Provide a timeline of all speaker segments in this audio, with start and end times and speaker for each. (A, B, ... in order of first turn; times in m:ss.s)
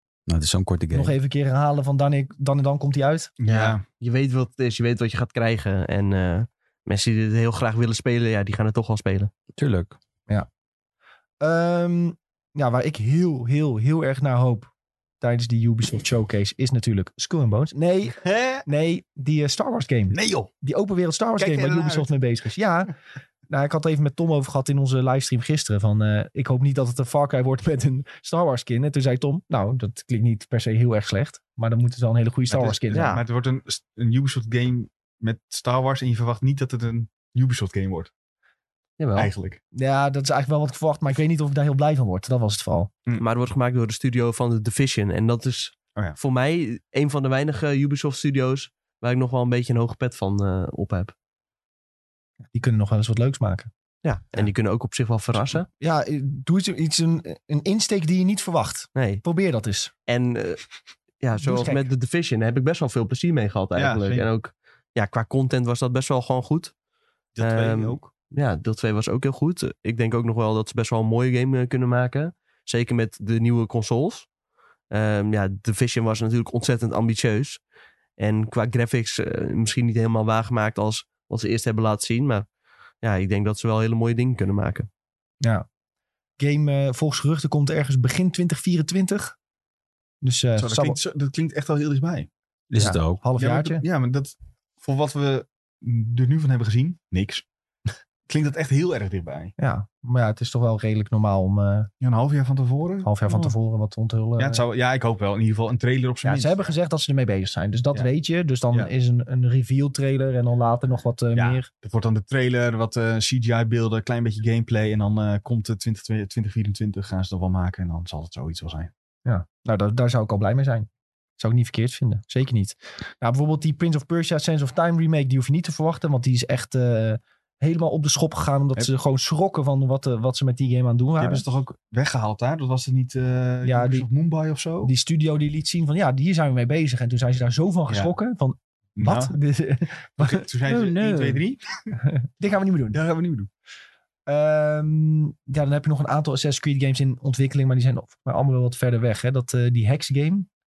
0:00.3-0:01.2 A
0:00.9-0:03.4 B
0:03.4-0:03.8 C
0:03.5-0:09.3 D
0:09.6-0:10.0 A
0:11.4-0:14.7 B
0:15.2-0:22.9 B
0:18.2-0:18.6 C
0:20.1-0:20.5 C
0:21.4-0:22.1 C
0:23.5-0:33.2 B
0:32.5-0:38.1 C
0:32.9-0:33.2 D
0:39.0-0:39.3 D
0:39.2-0:39.6 C
0:39.7-0:42.9 B
0:43.2-0:51.1 D
0:52.5-0:53.7 B
0:54.0-0:55.7 D
0:55.8-0:59.9 B
0:59.0-0:59.2 D
1:00.1-1:00.6 D
1:01.2-1:06.7 D
1:01.4-1:01.9 B
1:03.8-1:04.3 C
1:07.4-1:08.1 C
1:07.4-1:14.3 D
1:14.9-1:17.6 D
1:18.2-1:22.4 D
1:23.0-1:24.9 D
1:26.4-1:29.4 B
1:30.2-1:31.0 B
1:30.6-1:32.3 C
1:32.7-1:33.2 A
1:32.8-1:33.8 B
1:33.4-1:37.4 C
1:38.3-1:39.5 C
1:39.6-1:41.9 B
1:42.0-1:43.6 C
1:43.0-1:44.6 B
1:44.4-1:46.7 C
1:46.2-1:51.7 B
1:51.4-1:58.9 C
1:59.3-2:00.9 B
2:01.4-2:11.4 B
2:11.2-2:14.9 C
2:13.6-2:14.1 B
2:14.8-2:20.4 B
2:19.0-2:19.4 C
2:20.2-2:21.9 C
2:20.7-2:21.4 A
2:22.0-2:23.0 B
2:22.9-2:23.5 C
2:24.3-2:30.5 B